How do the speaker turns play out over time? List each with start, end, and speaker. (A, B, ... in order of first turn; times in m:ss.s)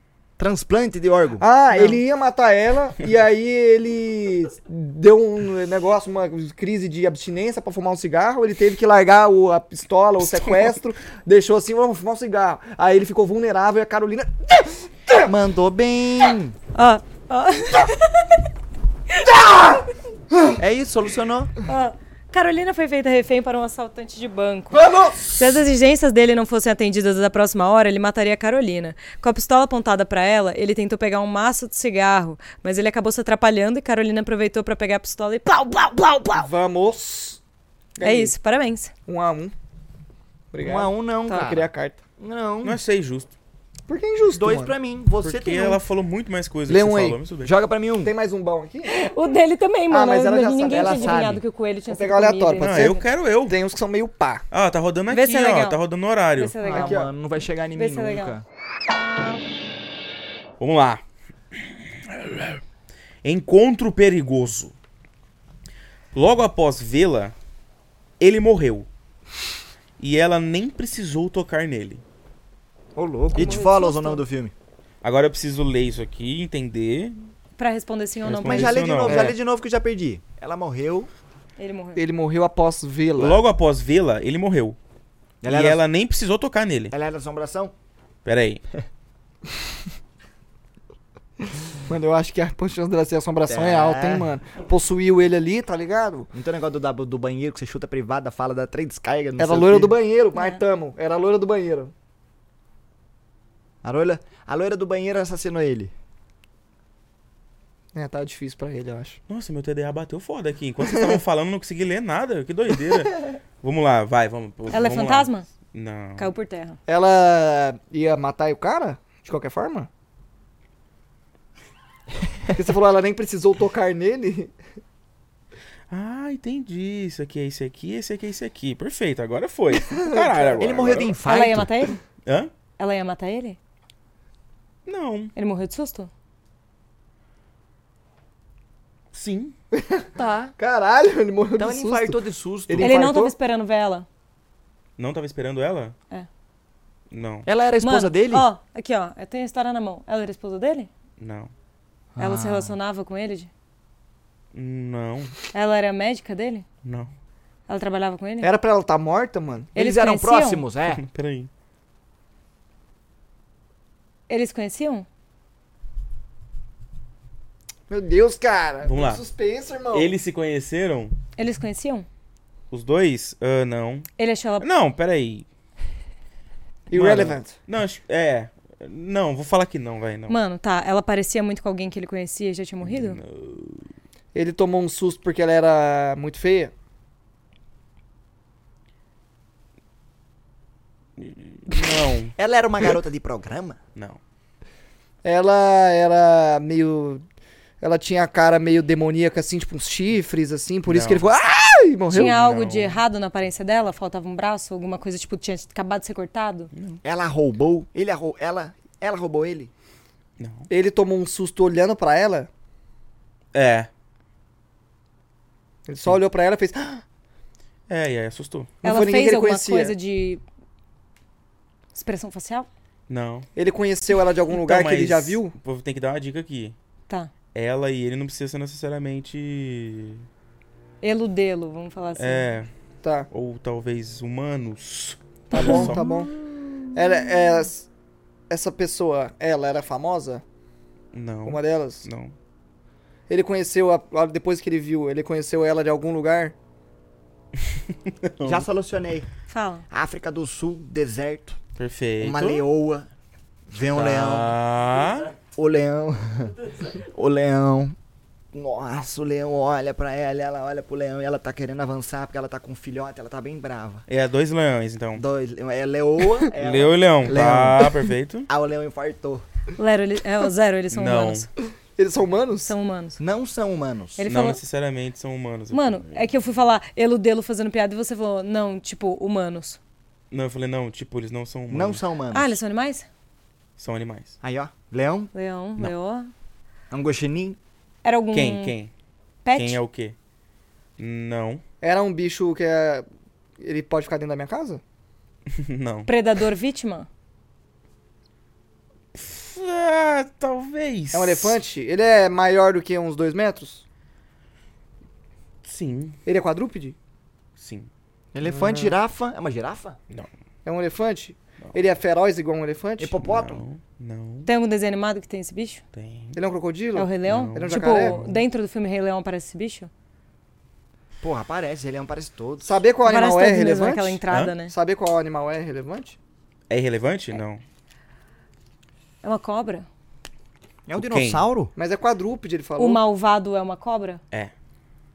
0:00.4-0:01.4 A
0:01.4-0:15.3 B
0:15.2-0:16.6 A
0:16.8-0:18.4 C
0:20.6-0:21.5 A
0:21.7-0:36.5 C
0:24.7-0:25.4 B
0:36.4-0:37.4 B
0:38.0-0:38.3 B
0:38.0-0:38.9 C
0:39.1-0:39.5 B
0:40.5-0:42.0 B
0:40.6-0:42.8 A
0:42.6-0:43.3 D
0:43.9-0:44.7 B
0:44.3-0:45.8 A
0:45.2-0:47.5 D
0:46.7-0:47.2 B
0:47.4-0:48.1 A
0:48.0-0:49.0 B
0:48.8-0:53.1 C
0:49.9-0:51.3 B
0:50.7-0:51.4 A
0:51.9-0:54.4 B
0:52.6-0:53.6 D
0:54.5-0:56.5 D
0:55.1-0:55.8 C
0:56.4-0:57.0 C
0:56.6-0:58.4 A
0:56.6-0:57.1 B
0:57.8-0:58.4 C
1:00.6-1:01.0 D
1:02.1-1:02.6 D
1:03.2-1:04.7 D
1:06.1-1:07.3 D
1:08.2-1:08.9 D
1:10.0-1:12.0 D
1:13.0-1:14.5 A
1:13.3-1:14.2 C
1:15.0-1:17.2 D
1:17.6-1:18.8 C
1:18.2-1:19.3 D
1:18.4-1:21.1 A
1:19.1-1:19.3 B
1:21.6-1:22.0 C
1:22.0-1:23.4 B
1:23.2-1:24.8 D
1:25.4-1:25.8 A
1:25.5-1:26.9 D
1:26.9-1:27.7 A
1:28.2-1:28.6 D
1:31.8-1:36.3 B
1:33.5-1:34.3 A
1:36.3-1:40.0 A
1:39.4-1:41.9 B
1:40.3-1:40.6 C
1:43.8-1:45.9 A
1:47.9-1:49.2 B
1:49.3-1:56.3 D
1:50.9-1:51.2 B
1:54.7-1:55.5 C
1:56.2-1:56.8 C
1:56.9-1:59.9 B
2:02.5-2:04.6 B
2:05.9-2:11.2 D
2:09.9-2:10.5 B
2:10.6-2:11.9 A
2:11.2-2:12.0 C
2:12.8-2:13.6 C
2:14.9-2:15.3 D
2:15.4-2:16.1 C
2:19.1-2:19.6 D
2:19.8-2:20.1 B
2:20.2-2:20.6 A
2:20.6-2:23.3 B
2:21.6-2:23.0 A
2:22.8-2:24.1 C
2:25.0-2:26.0 D
2:27.1-2:27.5 D
2:27.5-2:28.5 A
2:27.8-2:30.9 C
2:31.2-2:31.5 D
2:32.2-2:32.8 A
2:32.2-2:33.5 C
2:34.5-2:35.3 D
2:35.5-2:36.7 C
2:36.8-2:37.1 D
2:37.7-2:38.5 C
2:38.4-2:39.7 B
2:39.8-2:41.0 A
2:39.8-2:40.6 C
2:40.9-2:41.5 D
2:44.3-2:45.1 C
2:47.9-2:50.1 B
2:48.8-2:49.2 D
2:49.9-2:51.2 D
2:51.4-2:52.1 C
2:52.7-2:55.4 D
2:54.2-2:54.7 C
2:56.9-2:57.5 B
2:56.9-3:00.4 D
3:00.3-3:03.2 C
3:02.8-3:03.9 D
3:04.3-3:06.7 B
3:11.2-3:12.3 D
3:11.7-3:12.1 B
3:12.4-3:13.8 A
3:15.2-3:17.2 B
3:17.8-3:22.4 B
3:20.9-3:21.3 D
3:22.1-3:26.7 C
3:22.2-3:23.0 D
3:26.7-3:27.0 D
3:27.0-3:29.7 A
3:30.4-3:30.7 D
3:30.7-3:32.5 B
3:33.5-3:33.9 D
3:35.9-3:37.0 B
3:37.9-3:38.7 D
3:38.8-3:40.0 B
3:38.8-3:40.4 C
3:41.9-3:42.7 C
3:43.1-3:43.5 D
3:43.6-3:45.6 B
3:44.5-3:46.8 D
3:47.5-3:50.2 D
3:51.0-3:52.4 C
3:52.2-3:52.7 D
3:53.0-3:53.3 B
3:53.3-3:56.2 D
3:55.5-3:56.3 B
3:55.5-3:56.0 C
3:56.9-3:57.9 B
3:58.5-4:00.4 B
4:01.1-4:02.3 D
4:01.5-4:02.1 B
4:03.3-4:06.6 B
4:08.1-4:08.7 D
4:08.4-4:09.3 A
4:09.5-4:09.8 C
4:09.9-4:11.6 A
4:11.8-4:12.6 D
4:12.2-4:13.1 A
4:13.7-4:14.6 A
4:13.9-4:15.4 D
4:15.4-4:18.0 A
4:18.5-4:24.1 A
4:24.1-4:25.2 D
4:25.2-4:28.0 A
4:26.6-4:28.5 D
4:28.5-4:29.4 A
4:29.8-4:31.5 C
4:30.9-4:31.5 D
4:32.0-4:32.7 B
4:32.7-4:33.2 C
4:33.2-4:34.2 A
4:34.2-4:34.6 C
4:34.3-4:36.3 D
4:35.7-4:39.8 C
4:40.3-4:42.0 D
4:41.7-4:42.6 A
4:42.3-4:43.1 C
4:43.8-4:44.4 D
4:44.4-4:45.3 A
4:45.3-4:46.3 C
4:46.9-4:47.6 A
4:48.0-4:48.8 C
4:48.3-4:48.9 D
4:49.4-4:49.8 C
4:49.6-4:50.2 D
4:51.0-4:51.6 D
4:51.8-4:53.1 B
4:53.6-4:54.8 B
4:55.5-4:56.1 D
4:56.1-4:57.1 C
4:59.1-5:01.6 D
5:01.1-5:03.8 B
5:05.6-5:06.2 D
5:06.2-5:07.0 B
5:07.6-5:07.9 D
5:08.3-5:10.0 A
5:08.4-5:09.0 B
5:10.6-5:13.2 B
5:13.0-5:13.6 A
5:13.2-5:14.5 D
5:14.5-5:15.8 C
5:15.9-5:16.4 D
5:16.4-5:18.2 B
5:17.0-5:19.9 C
5:17.3-5:18.4 D
5:21.2-5:22.7 A
5:22.6-5:26.2 B
5:23.0-5:24.7 C
5:26.7-5:27.6 D
5:29.2-5:29.9 C
5:30.9-5:31.7 A
5:31.0-5:31.4 D
5:31.8-5:33.0 B
5:32.8-5:34.2 C